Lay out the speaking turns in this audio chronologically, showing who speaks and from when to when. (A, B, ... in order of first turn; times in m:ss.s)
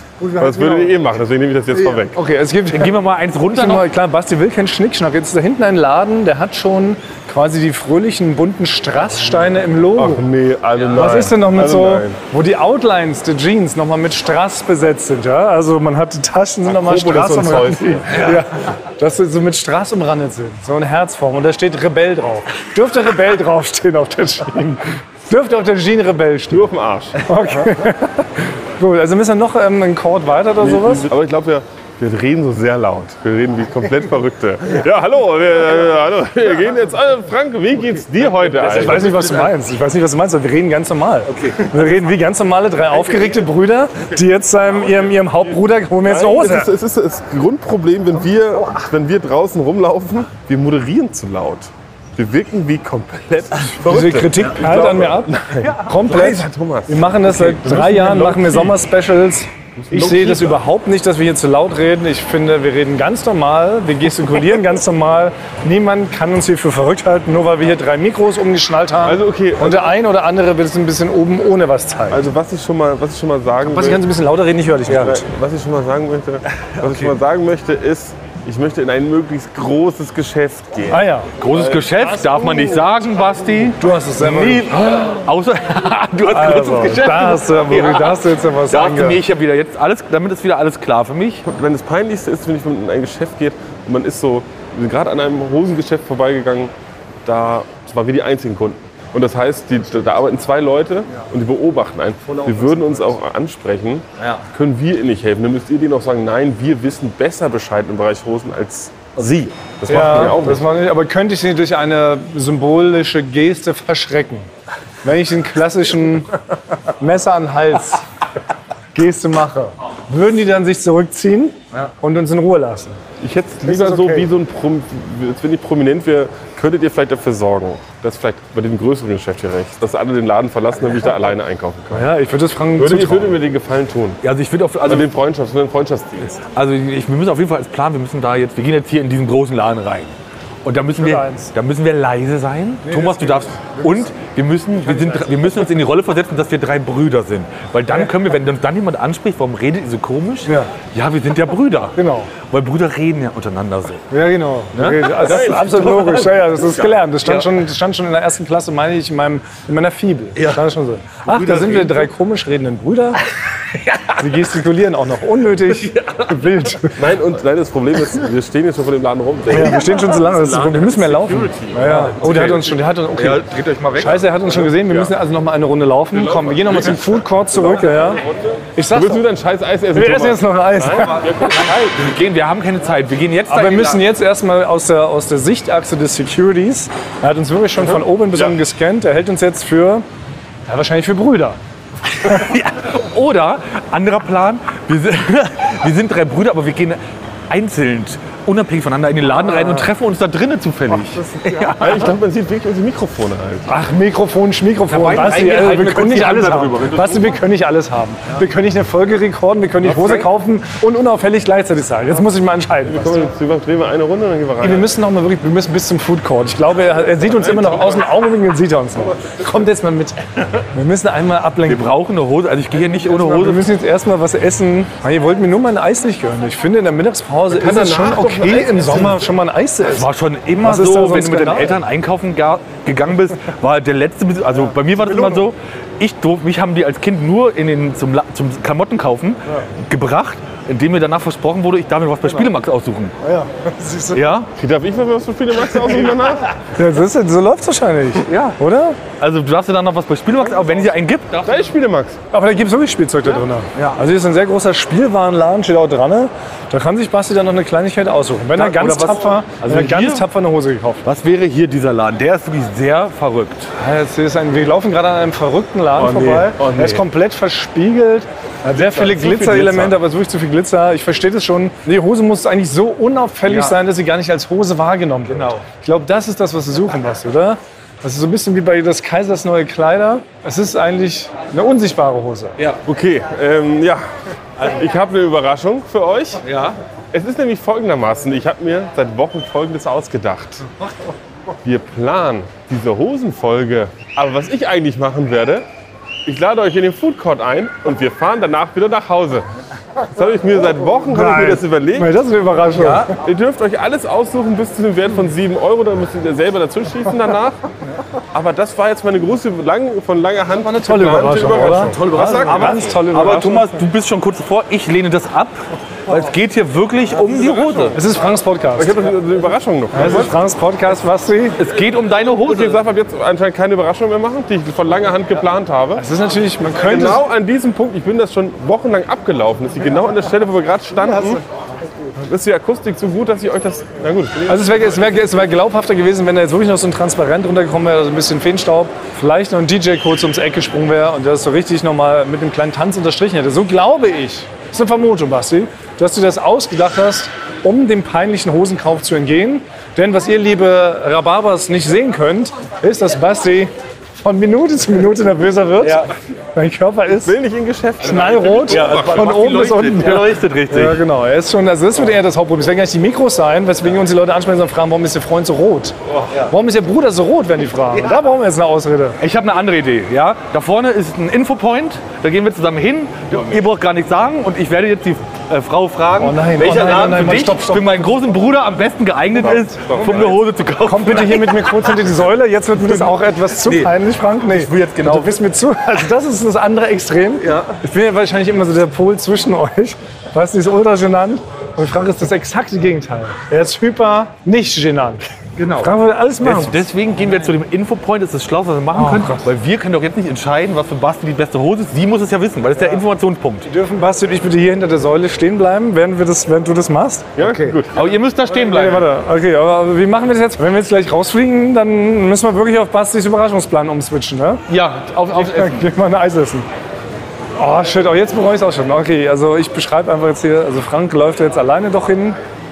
0:00.2-0:00.9 A
0:00.4-0:02.2 B
0:02.1-0:10.2 A
0:02.7-0:03.9 C
0:10.0-0:12.2 B
0:10.9-0:26.7 A
0:16.6-0:18.3 B
0:26.5-0:27.2 B
0:27.2-0:31.1 A
0:30.6-0:39.3 B
0:38.6-0:46.7 A
0:38.9-0:39.2 C
0:41.2-0:41.7 C
0:46.0-0:58.7 B
0:53.8-1:12.2 A
0:59.8-1:00.6 B
1:09.0-1:09.9 B
1:12.1-1:14.0 B
1:13.6-1:15.2 A
1:14.9-1:21.0 B
1:16.6-1:17.1 C
1:20.9-1:21.3 A
1:21.4-1:31.4 C
1:22.0-1:22.8 A
1:23.8-1:24.8 A
1:26.3-1:29.2 A
1:31.4-1:36.7 B
1:37.2-1:50.6 B
1:44.2-1:44.4 C
1:49.9-1:54.5 A
1:55.0-1:56.3 A
1:57.0-1:58.0 A
1:58.9-2:03.0 A
2:03.2-2:12.1 B
2:03.7-2:04.3 A
2:11.9-2:13.4 A
2:12.8-2:14.2 B
2:14.2-2:15.1 C
2:14.8-2:16.4 B
2:16.4-2:34.1 C
2:21.0-2:21.5 A
2:22.8-2:24.0 A
2:30.4-2:30.7 A
2:32.0-2:32.3 A
2:34.1-2:43.2 A
2:34.7-2:35.3 C
2:35.1-2:37.0 B
2:37.2-2:37.5 C
2:40.4-2:40.6 C
2:41.2-2:42.1 C
2:43.7-2:44.3 C
2:44.2-2:47.0 A
2:45.7-2:46.5 C
2:46.9-2:52.5 B
2:49.5-2:58.2 A
2:49.8-2:51.1 C
2:51.8-2:54.2 C
2:54.5-2:55.1 B
2:56.1-3:01.7 B
2:58.8-2:59.2 A
2:59.9-3:01.2 A
3:01.2-3:04.0 C
3:03.5-3:10.0 A
3:10.7-3:11.6 A
3:12.1-3:22.1 C
3:21.7-3:23.7 B
3:23.7-3:33.2 A
3:24.9-3:27.3 C
3:32.8-3:34.9 B
3:34.6-3:41.9 A
3:41.6-3:43.7 C
3:43.1-3:50.1 A
3:47.5-3:49.2 B
3:49.9-4:03.2 C
3:50.6-3:51.8 A
4:03.2-4:04.2 A
4:04.1-4:04.5 C
4:04.6-4:06.5 B
4:06.7-4:09.0 A
4:08.2-4:08.6 C
4:09.2-4:11.6 C
4:11.4-4:12.2 B
4:12.3-4:21.0 A
4:18.5-4:20.3 C
4:21.0-4:23.7 C
4:23.8-4:42.6 A
4:26.0-4:27.0 C
4:28.9-4:30.0 C
4:33.4-4:33.8 C
4:35.3-4:35.6 C
4:42.8-4:44.0 B
4:44.6-4:46.4 B
4:46.4-4:46.8 C
4:47.1-4:50.6 B
4:51.6-4:55.6 B
4:56.2-4:59.4 B
5:00.1-5:02.1 B
5:01.1-5:03.1 A
5:02.7-5:03.1 C
5:03.2-5:07.6 B
5:08.3-5:12.9 B
5:10.6-5:13.7 A
5:11.7-5:18.0 C
5:17.9-5:19.0 A
5:18.8-5:20.3 B
5:19.9-5:21.6 A
5:21.6-5:22.8 C
5:22.1-5:26.0 B
5:26.0-5:27.2 A
5:26.8-5:31.4 B
5:32.2-5:34.4 B
5:34.4-5:57.3 A
5:55.8-5:56.1 C
5:57.2-5:59.3 B
5:58.0-6:09.2 A
5:58.7-6:01.0 C
6:09.2-6:22.0 C
6:16.2-6:18.0 A
6:19.4-6:20.4 B
6:20.8-6:36.8 A
6:22.8-6:25.4 C
6:27.4-6:27.7 C
6:35.6-6:43.7 C
6:38.9-6:39.4 A
6:43.6-6:47.8 A
6:47.4-6:48.0 B
6:47.9-6:49.1 C
6:48.6-6:54.6 A
6:54.7-6:55.9 C
6:55.4-6:56.6 A
6:57.6-7:02.4 A